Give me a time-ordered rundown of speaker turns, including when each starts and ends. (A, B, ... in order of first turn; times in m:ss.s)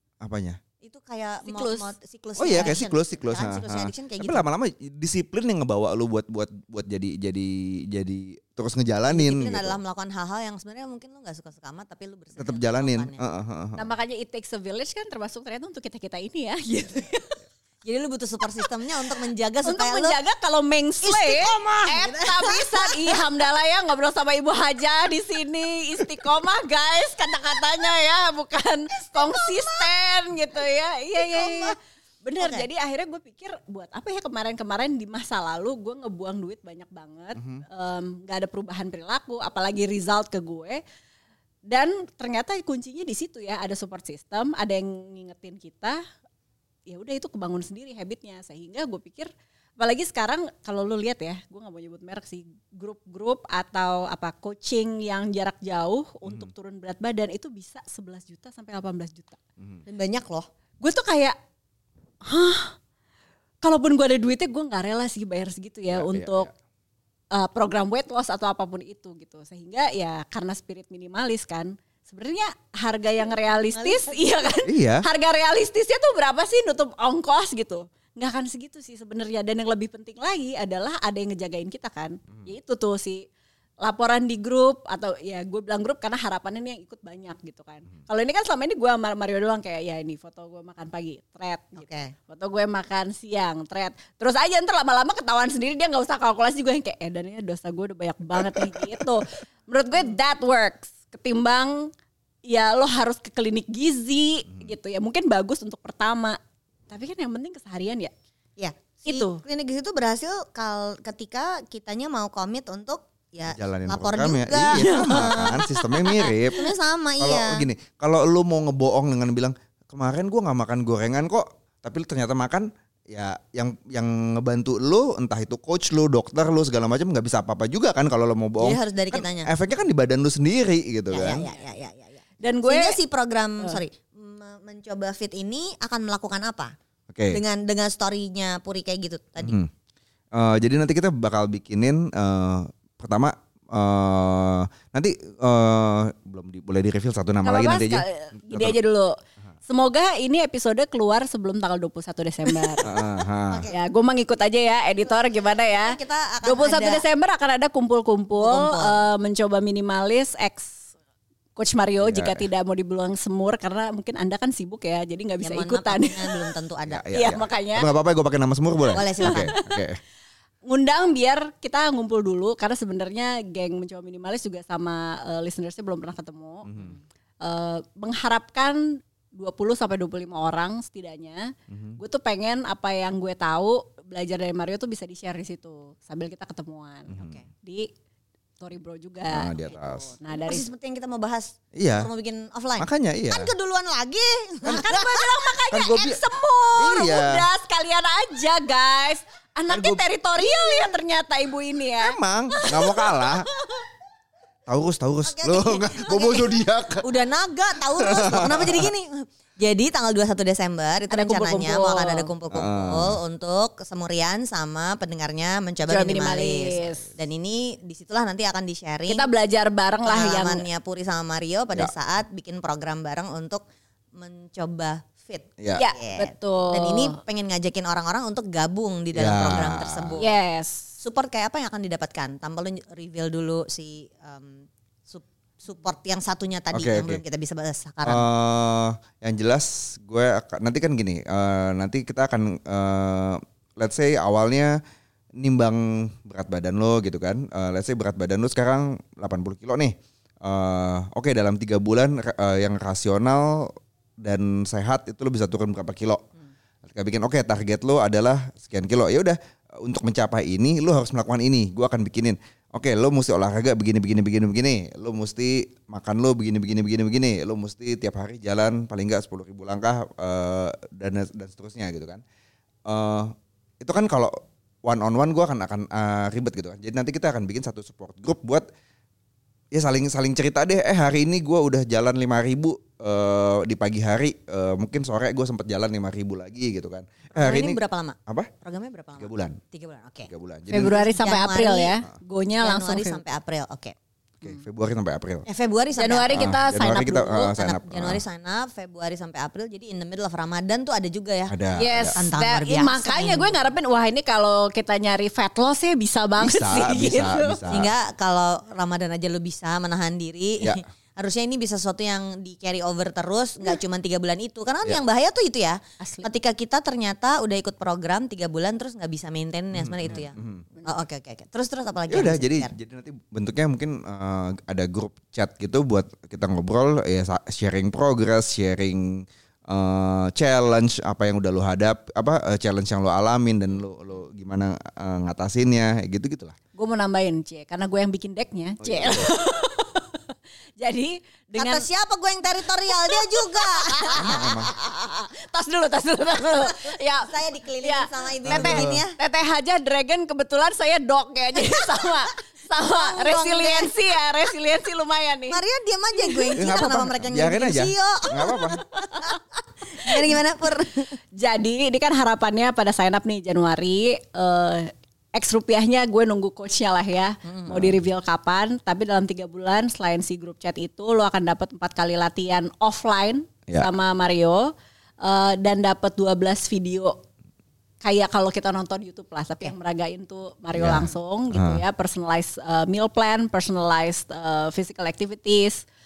0:00.2-0:00.6 A
0:00.8-0:04.4 B
0:01.4-0:01.9 C
0:02.4-0:09.8 A
0:09.1-0:13.2 B
0:12.4-0:13.9 A
0:13.8-0:17.4 C
0:17.8-0:20.2 B
0:19.6-0:40.8 C
0:21.0-0:23.3 B
0:29.1-0:29.9 B
0:31.2-0:31.7 B
0:32.4-0:32.7 B
0:37.3-0:37.6 A
0:41.7-0:46.0 C
0:46.9-0:59.4 C
0:56.2-0:56.5 A
0:59.6-0:59.8 A
0:59.8-1:00.5 B
1:00.8-1:01.4 C
1:02.2-1:02.7 C
1:03.6-1:06.5 C
1:05.9-1:06.5 A
1:07.3-1:23.2 C
1:13.2-1:14.5 B
1:14.6-1:15.0 A
1:23.8-1:41.9 C
1:31.8-1:32.1 B
1:38.4-1:39.0 A
1:42.5-1:46.4 C
1:46.9-1:48.1 C
1:48.6-1:57.7 B
1:49.0-1:49.4 C
1:53.5-2:11.4 A
1:54.8-1:55.6 C
2:08.6-2:09.5 B
2:11.1-2:16.7 B
2:12.4-2:13.0 C
2:17.1-2:17.4 A
2:17.3-2:19.6 B
2:19.4-2:19.7 A
2:20.3-2:28.8 A
2:27.4-2:29.1 C
2:29.7-2:32.9 C
2:32.7-2:33.7 B
2:32.8-2:33.7 A
2:33.7-2:40.8 C
2:35.1-2:37.0 B
2:38.4-2:39.0 B
2:41.6-2:46.5 C
2:42.0-2:42.5 A
2:45.4-2:47.1 B
2:46.9-2:50.0 A
2:47.1-2:47.9 C
2:48.9-2:49.5 B
2:48.9-2:49.8 C
2:50.6-3:07.9 C
2:56.6-2:57.0 A
3:01.7-3:02.0 A
3:07.1-3:07.4 A
3:08.6-3:10.6 C
3:09.3-3:10.1 A
3:10.3-3:15.2 B
3:11.7-3:12.1 A
3:12.8-3:13.5 A
3:14.6-3:15.1 A
3:14.7-3:23.9 C
3:15.7-3:16.2 A
3:16.7-3:17.4 A
3:19.7-3:20.8 A
3:22.0-3:23.5 A
3:24.7-3:27.1 A
3:25.2-3:39.3 B
3:27.9-3:28.9 A
3:31.1-3:32.3 C
3:32.5-3:33.2 A
3:35.9-3:37.1 C
3:39.1-3:40.7 C
3:40.0-3:43.6 B
3:44.2-3:50.2 B
3:45.8-3:47.2 C
3:49.1-3:50.2 A
3:50.2-3:50.9 C
3:51.0-3:58.3 B
3:56.7-3:57.2 A
3:58.0-4:04.7 A
4:05.4-4:16.2 A
4:16.8-4:32.2 A
4:32.8-4:38.6 A
4:39.7-4:48.5 A
4:47.3-4:50.3 B
4:49.2-4:49.6 A
4:50.3-4:51.0 A
4:50.7-4:53.2 C
4:50.8-4:52.0 B
4:52.6-4:53.9 B
4:54.4-4:55.4 A
4:55.4-4:56.6 B
4:56.0-4:57.4 C
4:56.3-4:58.2 A
4:57.1-5:01.6 B
5:01.5-5:02.3 A
5:01.7-5:07.8 C
5:02.1-5:03.5 B
5:06.4-5:07.9 A
5:07.7-5:20.3 B
5:16.0-5:16.3 C
5:19.7-5:20.7 A
5:20.8-5:21.0 C
5:20.8-5:22.7 B
5:22.1-5:36.5 A
5:36.7-5:41.9 C
5:38.8-5:39.3 A
5:41.6-5:44.7 B
5:42.9-5:55.6 C
5:44.2-5:44.7 A
5:46.5-5:49.1 B
5:48.4-5:49.0 A
5:52.8-5:53.9 B
5:55.5-5:59.4 B
5:56.2-5:56.9 C
5:56.6-5:58.8 A
5:58.8-5:59.4 C
5:59.9-6:01.1 B
6:00.0-6:00.3 C
6:01.4-6:14.7 C
6:07.4-6:07.8 B
6:07.7-6:08.0 A
6:15.2-6:17.2 C
6:18.0-6:25.8 C
6:20.7-6:21.8 A